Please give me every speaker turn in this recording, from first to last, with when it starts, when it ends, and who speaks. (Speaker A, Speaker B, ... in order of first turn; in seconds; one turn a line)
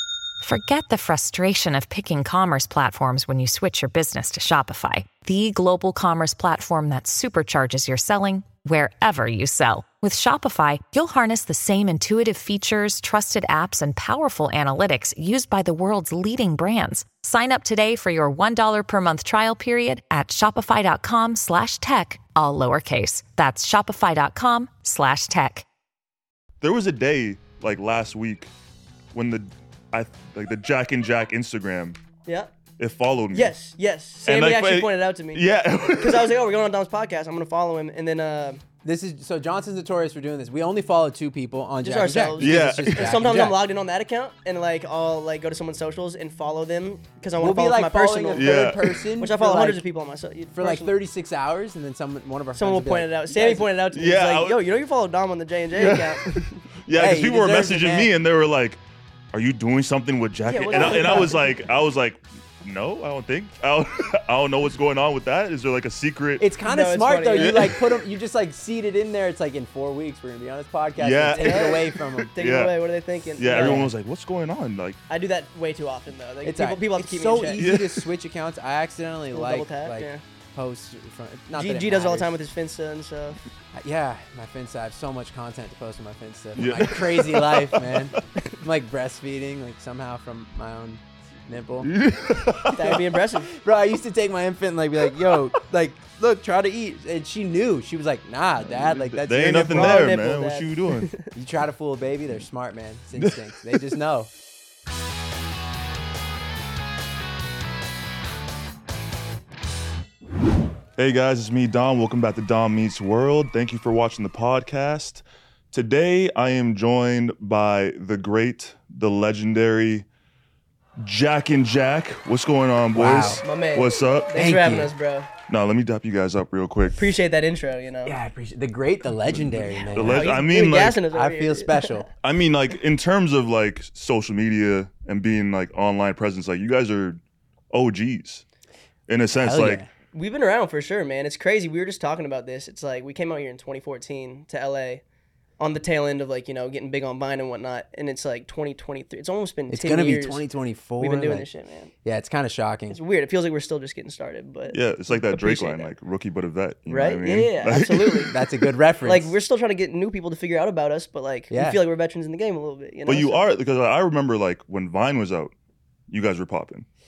Speaker A: 0.4-25.7
Speaker B: 26.6-28.5
Speaker B: 29.1-32.0
Speaker C: 32.3-32.5
Speaker B: 32.8-33.5
Speaker C: 33.3-38.6
Speaker B: 34.2-36.3
Speaker D: 38.8-43.6
Speaker C: 41.8-50.9
Speaker B: 42.4-43.2
Speaker D: 47.4-49.8
Speaker B: 48.3-49.0
Speaker D: 50.5-53.7
Speaker C: 52.6-56.6
Speaker B: 53.9-54.7
Speaker B: 55.8-58.8
Speaker D: 56.9-58.1
Speaker B: 59.3-66.5
Speaker C: 60.5-61.4
Speaker D: 60.7-61.3
Speaker D: 66.4-72.3
Speaker C: 66.7-67.7
Speaker B: 67.4-67.8
Speaker B: 71.0-72.8
Speaker C: 71.3-73.8
Speaker B: 73.4-75.0
Speaker D: 73.4-73.9
Speaker C: 75.1-77.6
Speaker D: 76.4-82.3
Speaker B: 77.6-78.0
Speaker C: 79.3-80.2
Speaker C: 81.5-83.4
Speaker D: 83.7-91.9
Speaker B: 86.6-88.2
Speaker B: 91.8-93.0
Speaker C: 92.7-93.5
Speaker D: 93.5-100.1
Speaker B: 98.7-101.1
Speaker C: 99.7-101.3
Speaker D: 101.3-104.3
Speaker B: 111.0-120.1
Speaker B: 121.0-124.5
Speaker D: 122.9-123.4
Speaker C: 123.4-125.3
Speaker D: 124.3-124.9
Speaker B: 125.5-127.0
Speaker C: 127.0-128.2
Speaker D: 128.1-130.5
Speaker B: 129.3-131.0
Speaker C: 130.0-131.9
Speaker D: 131.1-132.1
Speaker B: 132.2-137.2
Speaker B: 137.7-138.4
Speaker B: 139.1-139.8
Speaker D: 139.3-139.9
Speaker C: 140.1-145.0
Speaker C: 145.6-150.4
Speaker D: 149.7-151.5
Speaker C: 151.0-151.9
Speaker D: 152.0-153.0
Speaker C: 152.9-155.9
Speaker B: 154.7-158.3
Speaker C: 156.9-158.3
Speaker D: 158.3-159.4
Speaker C: 159.0-163.5
Speaker D: 161.5-161.8
Speaker B: 163.1-165.5
Speaker B: 166.1-166.9